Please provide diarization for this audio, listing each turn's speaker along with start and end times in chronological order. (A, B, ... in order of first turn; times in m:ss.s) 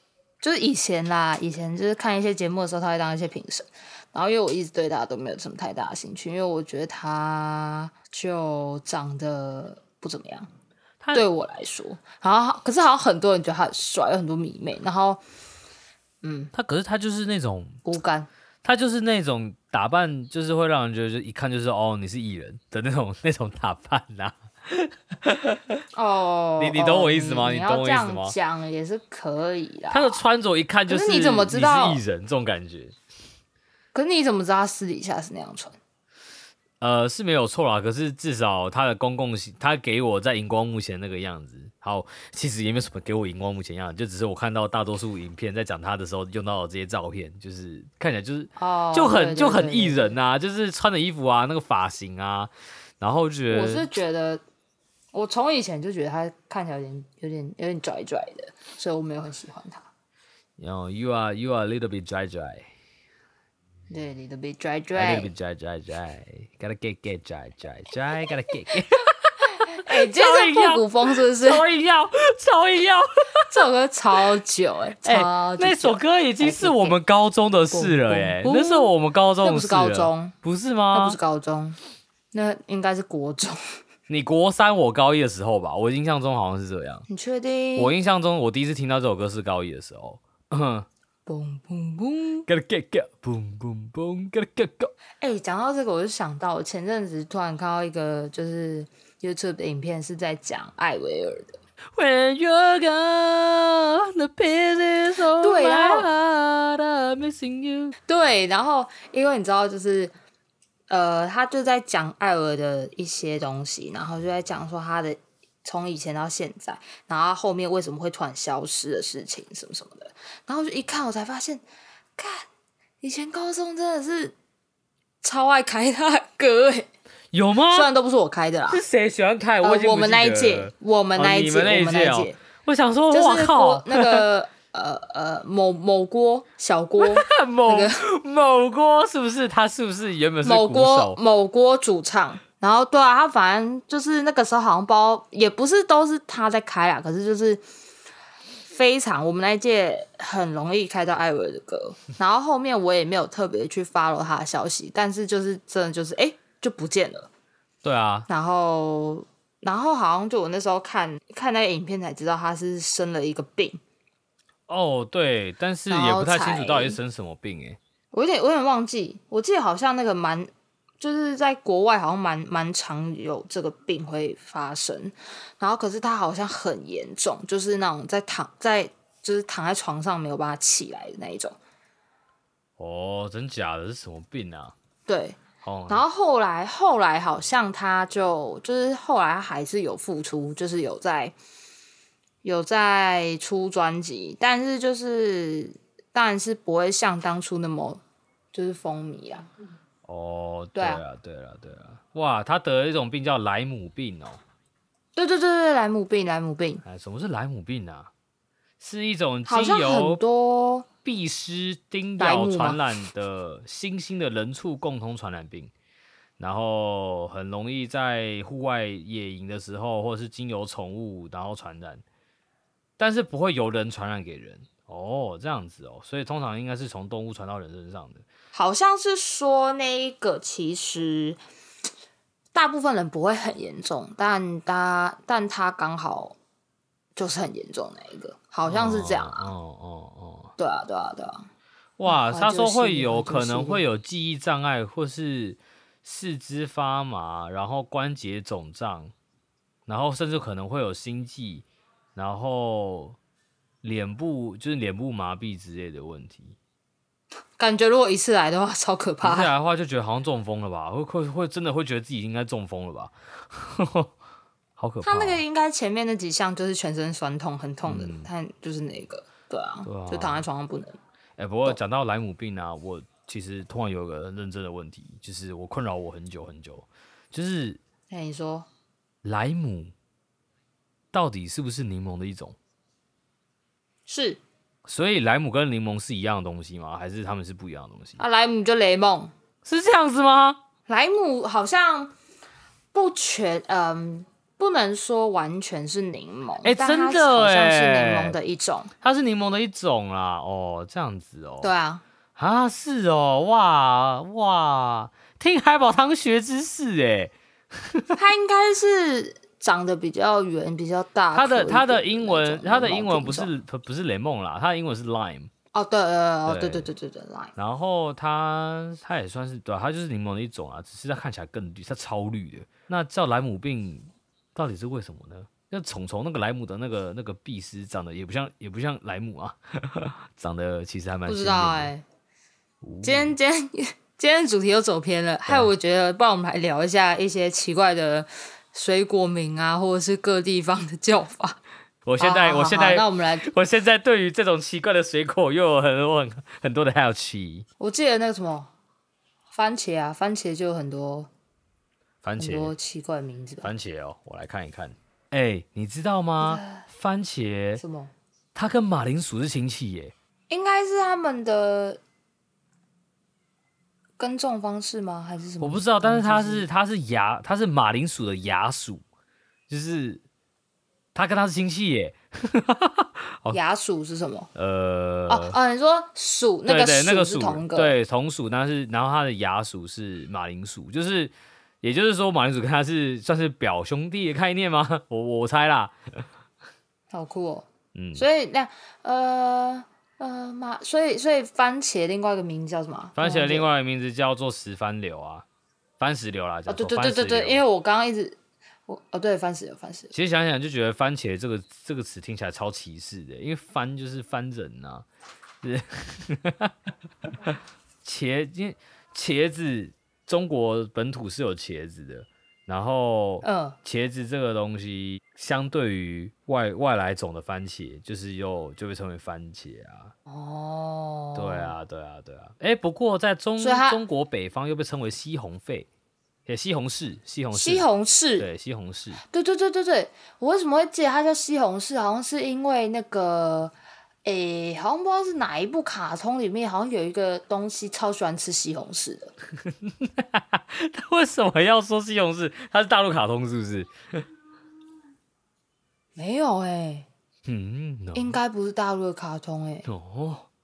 0:00.4-0:10.5 A
0:11.0-0:11.3 B
0:11.1-0:15.2 A
0:16.2-0:16.5 A
0:16.5-0:17.8 B
0:17.8-0:18.3 A
0:18.6-0:25.8 B
0:25.9-0:30.2 A
0:26.6-0:28.4 B
0:29.9-0:32.9 B
0:30.9-0:32.0 A
0:33.9-0:35.8 A
0:36.8-0:53.9 B
0:48.6-0:50.2 A
0:53.5-0:54.4 A
0:55.1-0:59.9 A
1:00.6-1:02.7 B
1:03.9-1:05.3 A
1:04.9-1:13.5 B
1:09.7-1:11.6 A
1:13.5-1:17.0 A
1:15.0-1:21.2 B
1:17.7-1:20.3 A
1:20.9-1:21.8 A
1:22.3-1:23.6 A
1:24.1-1:27.0 B
1:27.1-1:27.9 A
1:27.8-1:30.9 B
1:31.2-1:32.5 A
1:32.5-1:34.9 B
1:35.2-1:41.6 A
1:42.0-1:47.9 B
1:45.4-1:46.1 A
1:48.1-1:50.1 A
1:50.9-2:01.6 A
2:02.2-2:02.5 A
2:03.0-2:04.3 A
2:05.2-2:06.9 A
2:07.3-2:07.9 B
2:07.7-2:08.8 A
2:08.7-2:14.2 B
2:09.6-2:12.4 A
2:13.1-2:17.9 A
2:17.0-2:21.2 B
2:20.4-2:27.6 A
2:28.6-2:37.3 A
2:37.8-2:38.3 B
2:38.3-2:43.8 A
2:44.7-2:47.8 B
2:45.9-2:47.0 A
2:48.1-2:50.5 A
2:51.0-3:01.6 A
3:02.8-3:04.7 B
3:05.1-3:11.4 A
3:05.6-3:06.0 B
3:12.4-3:18.0 A
3:18.5-3:19.5 A
3:20.0-3:24.4 B
3:20.8-3:21.0 A
3:25.1-3:26.8 A
3:26.8-3:28.1 B
3:28.8-3:30.2 B
3:29.4-3:30.8 A
3:31.0-3:35.7 B
3:32.2-3:32.8 A
3:36.4-3:42.0 B
3:43.0-3:48.2 B
3:48.5-3:51.4 A
3:52.5-3:56.4 A
3:57.2-3:59.5 A
3:58.6-4:00.5 B
4:00.6-4:01.4 A
4:02.0-4:09.1 B
4:02.0-4:03.8 A
4:09.9-4:13.2 B
4:13.8-4:16.6 B
4:17.6-4:19.5 A
4:19.2-4:24.1 B
4:24.8-4:25.4 B
4:25.0-4:31.0 A
4:27.8-4:28.3 B
4:29.8-4:30.4 B
4:31.4-4:37.8 B
4:38.1-4:38.7 A
4:39.2-4:39.9 B
4:41.1-4:42.6 B
4:44.1-4:44.4 A
4:44.8-4:48.2 B
4:48.2-4:49.3 A
4:49.6-4:50.6 B
4:50.9-4:52.1 A
4:52.9-4:58.9 A
4:56.6-4:58.4 B
4:59.0-5:01.7 B
5:01.6-5:02.0 A
5:02.4-5:08.1 B
5:08.1-5:13.5 A
5:11.3-5:15.5 B
5:15.7-5:17.5 A
5:16.5-5:16.9 B
5:17.6-5:31.9 B
5:31.3-5:32.0 A
5:32.8-5:33.3 B
5:33.0-5:41.6 A
5:42.0-5:47.6 B
5:42.2-5:43.4 A
5:47.8-5:48.7 A
5:49.5-5:51.3 A
5:52.2-5:52.7 B
5:52.4-5:53.7 A
5:53.6-5:57.8 B
5:56.4-5:56.8 A
5:57.8-5:58.1 A
5:58.5-6:00.1 B
6:00.5-6:02.0 A
6:04.2-6:06.7 A
6:05.6-6:09.0 B
6:09.7-6:10.2 B
6:11.1-6:13.6 B
6:13.5-6:14.5 A
6:14.5-6:15.6 B
6:15.3-6:18.0 A
6:16.7-6:25.9 B
6:27.1-6:33.7 A
6:27.9-6:28.2 B
6:33.2-6:35.4 B
6:36.0-6:37.6 B
6:36.7-6:38.4 A
6:38.9-6:40.1 A
6:40.1-6:45.0 B
6:45.6-6:46.7 B
6:47.4-7:00.1 B
6:53.4-6:53.8 A
7:00.3-7:01.8 A
7:01.3-7:05.9 B
7:03.6-7:04.0 A
7:06.5-7:07.8 B
7:07.5-7:08.5 A
7:08.4-7:09.2 B
7:09.2-7:19.3 A
7:19.8-7:23.9 B
7:26.2-7:27.1 A
7:27.4-7:28.4 B
7:28.1-7:29.8 A
7:29.8-7:30.5 B